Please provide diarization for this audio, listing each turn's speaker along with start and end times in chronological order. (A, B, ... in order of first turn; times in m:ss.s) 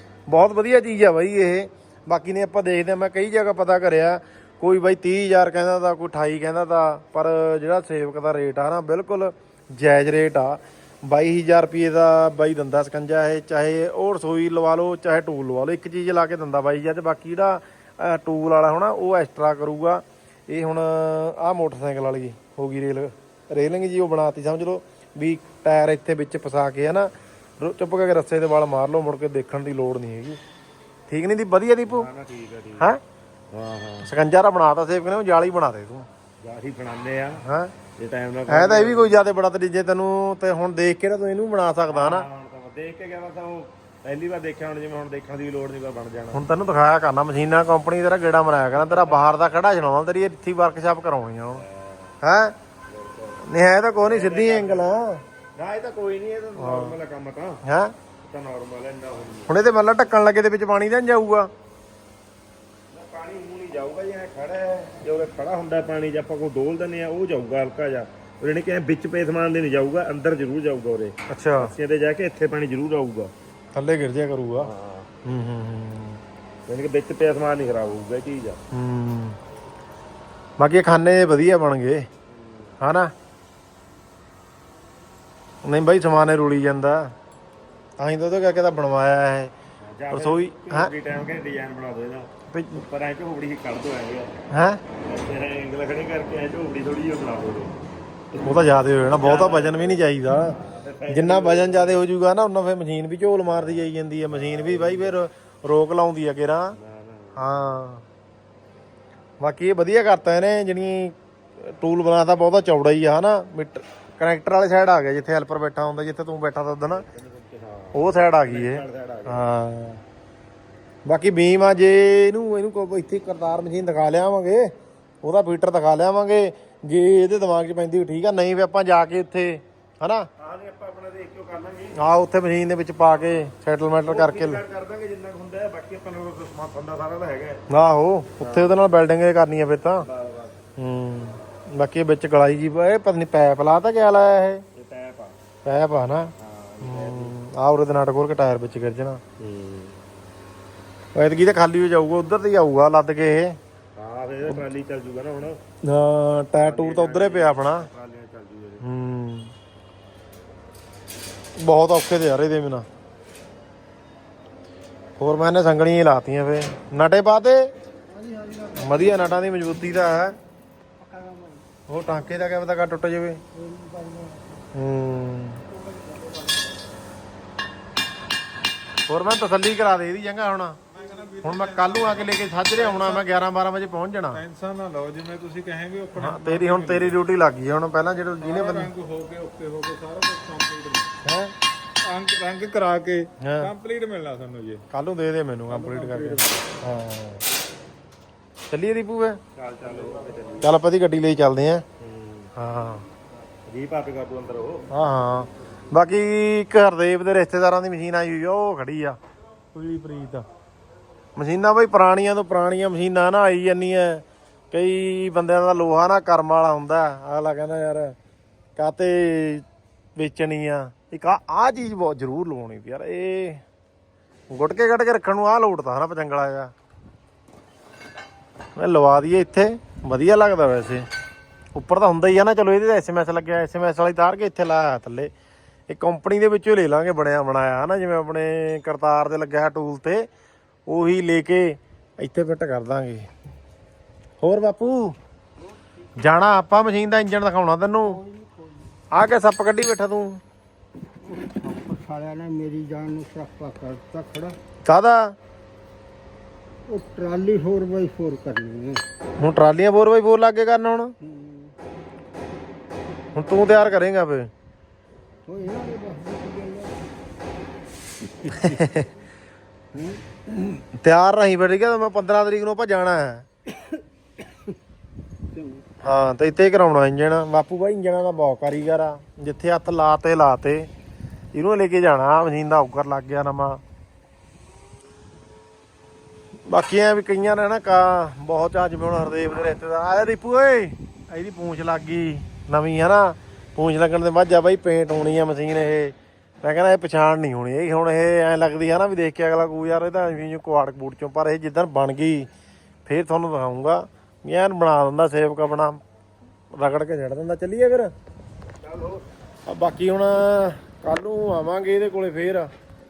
0:00.3-0:27.1 A
0:27.6-0:30.4 A
0:31.1-0:32.1 A
0:31.9-0:32.9 B
0:33.5-0:34.1 B
0:34.0-0:36.0 A
0:36.4-0:37.4 B
0:37.4-0:37.7 A
0:38.0-0:39.2 B
0:38.5-0:42.3 A
0:41.9-0:46.5 B
0:46.3-0:51.6 A
0:48.8-0:49.2 B
0:51.6-0:52.1 B
0:52.2-0:52.5 A
0:52.9-0:53.4 B
0:53.4-0:55.2 A
0:54.0-0:55.0 B
0:55.6-0:57.6 B
0:56.6-0:57.0 A
0:57.6-0:57.9 A
0:58.2-0:59.6 B
0:59.5-1:01.5 A
1:02.9-1:13.3 B
1:11.3-1:11.7 A
1:13.7-1:14.7 A
1:14.6-1:15.1 B
1:15.2-1:16.2 A
1:16.7-1:18.6 B
1:18.7-1:19.4 A
1:20.6-1:22.0 A
1:22.3-1:22.7 B
1:22.8-1:23.1 A
1:25.6-1:27.0 A
1:28.0-1:29.5 A
1:29.8-1:32.3 B
1:30.1-1:30.9 A
1:32.5-1:32.8 A
1:32.8-1:34.3 B
1:34.5-1:34.8 A
1:35.0-1:37.8 B
1:38.3-1:42.0 B
1:38.4-1:40.5 A
1:41.1-1:46.8 A
1:43.4-1:45.2 B
1:46.7-1:47.8 B
1:47.4-1:48.0 A
1:49.4-1:57.0 A
1:56.9-1:59.4 B
1:57.9-2:00.0 A
2:01.1-2:04.7 A
2:05.2-2:10.3 A
2:10.4-2:12.0 B
2:11.9-2:14.6 A
2:14.1-2:17.6 B
2:17.7-2:20.0 A
2:18.4-2:18.8 B
2:20.0-2:20.6 B
2:20.8-2:24.6 A
2:24.7-2:25.4 B
2:25.6-2:26.3 A
2:26.4-2:27.4 B
2:26.8-2:29.2 A
2:29.4-2:30.0 B
2:31.1-2:33.6 A
2:34.0-2:35.6 B
2:35.8-2:37.9 A
2:36.6-2:38.8 B
2:38.8-2:39.5 A
2:41.6-2:42.8 A
2:45.2-2:47.6 A
2:48.2-2:48.7 C
2:48.7-2:50.3 A
2:51.0-2:51.6 C
2:51.9-2:53.4 A
2:53.6-2:54.6 C
2:54.7-2:55.6 A
2:59.1-3:00.8 A
3:00.9-3:03.2 D
3:01.4-3:04.4 A
3:04.3-3:07.1 D
3:06.2-3:08.9 A
3:08.4-3:11.1 D
3:11.2-3:11.5 A
3:12.0-3:14.8 D
3:13.4-3:13.7 A
3:14.9-3:17.4 A
3:15.8-3:16.5 D
3:18.7-3:19.4 A
3:19.5-3:20.8 B
3:20.6-3:21.8 A
3:22.0-3:22.5 B
3:22.6-3:23.0 A
3:23.7-3:24.9 B
3:24.9-3:29.2 A
3:29.7-3:30.4 A
3:31.4-3:38.2 A
3:38.8-3:39.6 A
3:40.2-3:43.6 A
3:44.5-3:46.7 A
3:48.8-3:51.0 A
3:51.8-3:55.3 A
3:55.9-4:00.2 A
4:00.9-4:03.3 A
4:04.4-4:05.1 A
4:06.2-4:08.2 A
4:09.1-4:10.4 A
4:11.4-4:14.6 C
4:14.8-4:15.3 A
4:16.9-4:19.0 C
4:19.4-4:21.1 A
4:23.3-4:24.5 A
4:25.5-4:27.0 C
4:28.4-4:29.1 A
4:30.0-4:30.8 C
4:30.9-4:33.5 A
4:36.0-4:40.9 A
4:41.5-4:43.8 A
4:46.7-5:02.5 A
5:03.0-5:06.0 A
5:06.8-5:08.1 A
5:08.8-5:09.2 B
5:09.7-5:12.7 A